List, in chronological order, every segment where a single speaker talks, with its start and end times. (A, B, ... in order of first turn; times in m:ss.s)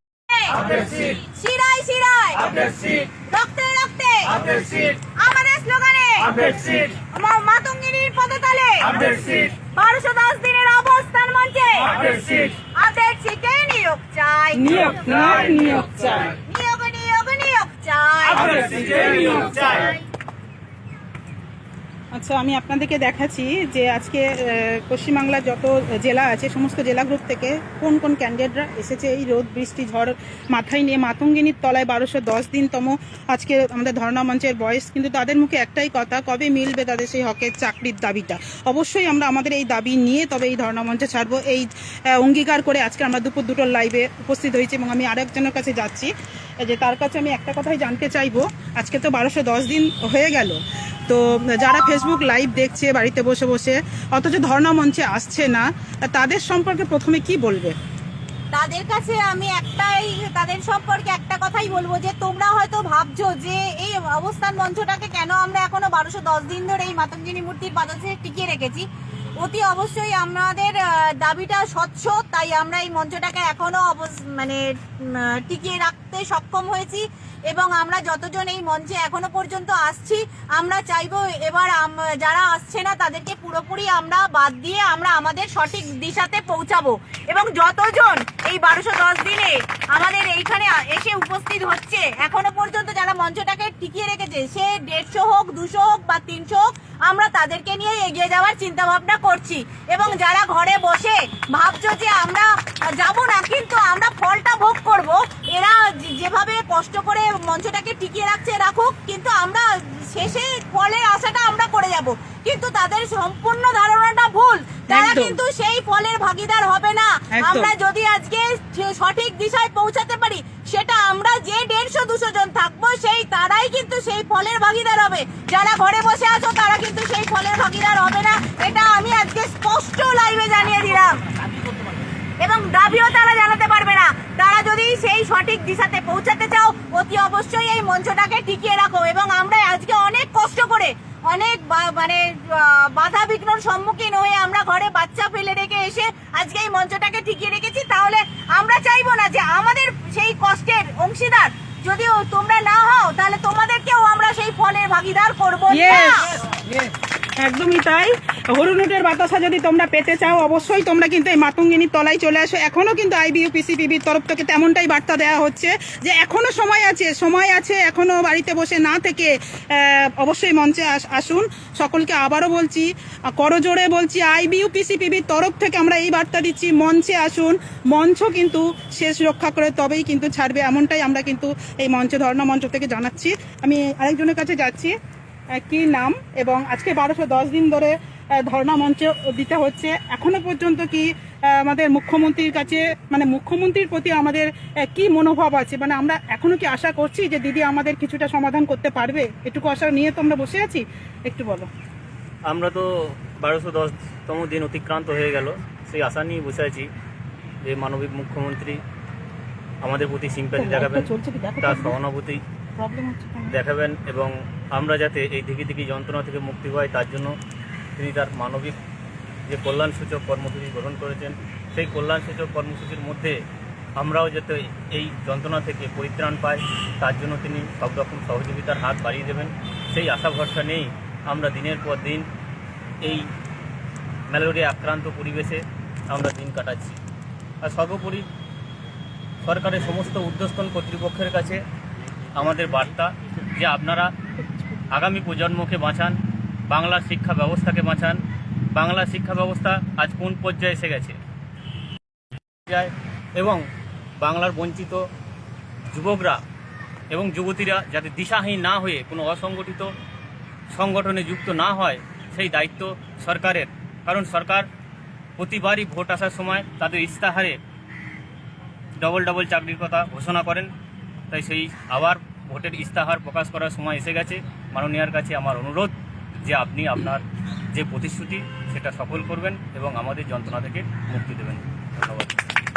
0:00.3-0:15.0 A
0:14.5-0:16.3 B
0:16.4-0:20.0 A
0:18.7-0:19.5 B
0:22.1-0:46.1 B
0:46.6-0:57.7 B
0:58.5-1:08.8 A
1:09.4-2:11.2 A
1:54.9-1:55.4 B
1:57.3-1:57.7 B
2:12.4-2:36.3 A
2:35.7-2:36.3 B
2:37.4-3:04.9 B
3:05.6-3:21.7 B
3:22.5-3:26.9 C
3:27.6-3:28.8 C
3:29.8-3:32.4 C
3:30.6-3:31.9 B
3:32.8-3:33.6 B
3:33.5-3:37.3 C
3:38.0-3:38.8 C
3:39.5-3:43.4 C
3:44.0-3:52.3 C
3:54.3-3:57.0 C
3:57.6-3:58.2 C
3:59.4-4:01.6 C
4:02.3-4:04.1 C
4:04.9-4:06.2 C
4:06.7-4:08.2 C
4:08.7-4:11.2 C
4:12.7-4:13.6 C
4:14.2-4:15.0 C
4:15.9-4:16.4 C
4:17.1-4:19.9 C
4:20.7-4:24.7 C
4:25.4-4:27.6 C
4:29.0-4:30.7 C
4:31.3-4:42.3 C